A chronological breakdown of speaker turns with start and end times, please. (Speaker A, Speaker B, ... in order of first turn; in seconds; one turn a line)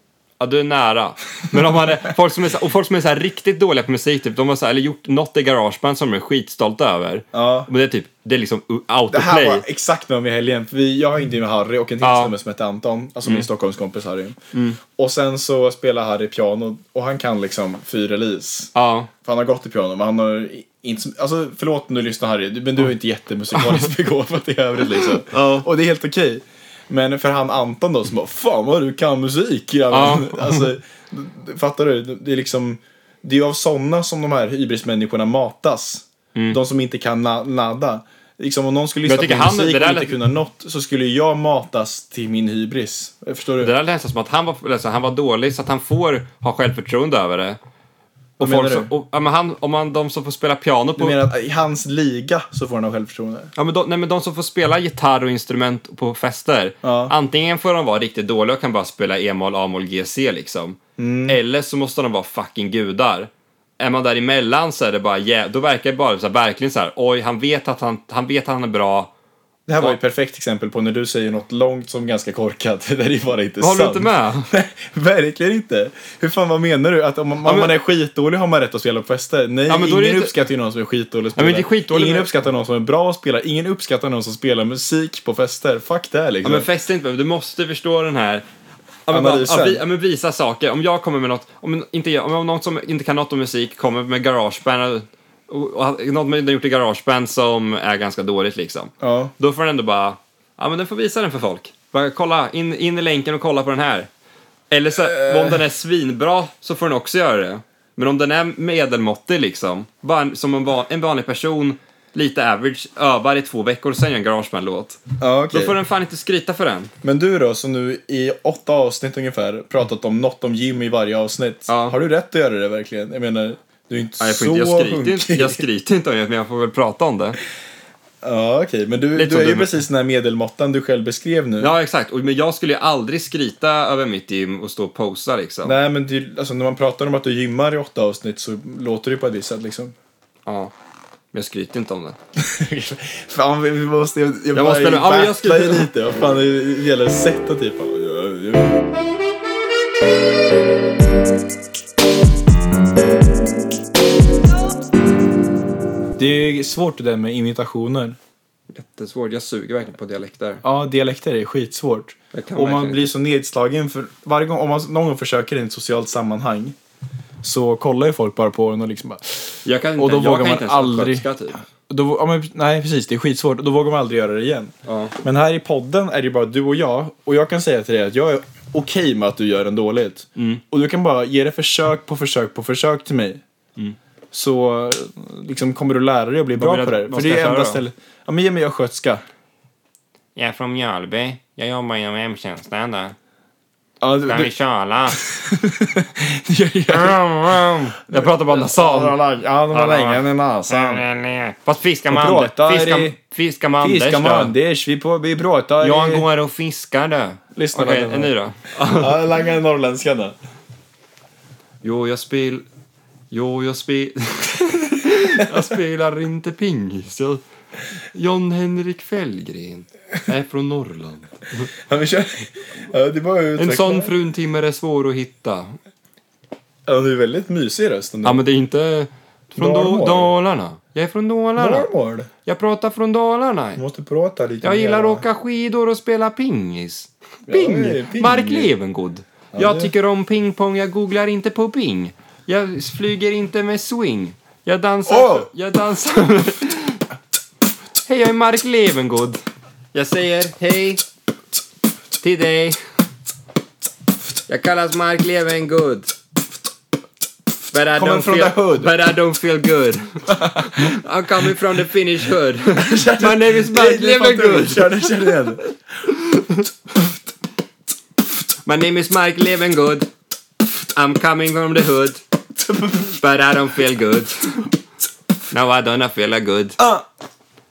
Speaker A: 0.4-9.7
Speaker B: 7.3-7.7
Speaker B: 9.1-14.4
Speaker A: 12.0-12.3
Speaker A: 14.5-14.8
Speaker B: 15.0-18.7
Speaker A: 18.8-19.1
Speaker B: 19.2-43.7
Speaker A: 23.5-23.9
Speaker A: 24.8-25.7
Speaker A: 29.9-30.7
Speaker A: 39.0-40.2
Speaker A: 43.6-47.6
Speaker A: 48.4-51.2
Speaker B: 48.4-48.9
Speaker B: 51.0-53.5
Speaker A: 53.6-69.1
Speaker B: 56.8-57.1
Speaker B: 61.0-61.4
Speaker B: 69.7-86.7
Speaker A: 73.6-74.5
Speaker A: 77.5-77.7
Speaker A: 79.7-80.4
Speaker A: 81.3-82.3
Speaker A: 86.4-88.5
Speaker A: 89.1-104.1
Speaker B: 89.1-89.8
Speaker B: 99.0-99.3
Speaker A: 104.7-116.9
Speaker B: 105.0-105.6
Speaker B: 115.2-115.8
Speaker B: 117.0-125.6
Speaker A: 121.7-122.0
Speaker A: 124.2-127.4
Speaker B: 128.2-131.7
Speaker A: 129.2-129.8
Speaker A: 131.6-135.8
Speaker B: 135.6-139.9
Speaker A: 140.5-140.7
Speaker A: 141.3-142.2
Speaker B: 142.4-148.8
Speaker A: 144.5-145.9
Speaker B: 156.2-158.2
Speaker A: 158.7-160.6
Speaker B: 160.6-166.8
Speaker A: 162.3-163.1
Speaker B: 167.4-171.3
Speaker A: 169.7-171.6
Speaker B: 171.9-183.4
Speaker A: 174.8-175.2
Speaker A: 180.4-180.6
Speaker B: 184.3-189.2
Speaker A: 186.6-187.8
Speaker A: 190.4-193.2
Speaker B: 194.0-194.5
Speaker A: 194.2-195.2
Speaker B: 195.2-197.2
Speaker A: 196.9-199.2
Speaker B: 198.1-201.1
Speaker A: 199.7-204.5
Speaker B: 202.1-203.2
Speaker B: 203.8-206.3
Speaker A: 205.8-209.2
Speaker B: 207.6-208.3
Speaker B: 208.9-210.3
Speaker A: 211.8-212.7
Speaker A: 213.3-217.4
Speaker A: 218.1-221.7
Speaker B: 221.9-224.1
Speaker A: 223.6-225.8
Speaker B: 226.9-228.4
Speaker A: 228.2-231.9
Speaker B: 229.6-230.3
Speaker B: 231.6-232.3
Speaker A: 232.4-233.8
Speaker B: 233.8-235.2
Speaker A: 234.6-247.0
Speaker B: 237.5-238.7
Speaker B: 239.5-239.9
Speaker B: 245.1-245.5
Speaker A: 248.1-251.0
Speaker A: 252.2-252.8
Speaker A: 254.5-256.1
Speaker A: 257.7-265.5
Speaker B: 257.9-258.9
Speaker B: 260.3-260.7
Speaker B: 262.8-265.6
Speaker A: 266.1-266.7
Speaker A: 268.6-270.1
Speaker A: 270.9-272.2
Speaker B: 272.6-273.1
Speaker A: 273.1-274.6
Speaker A: 275.5-276.8
Speaker B: 276.8-277.0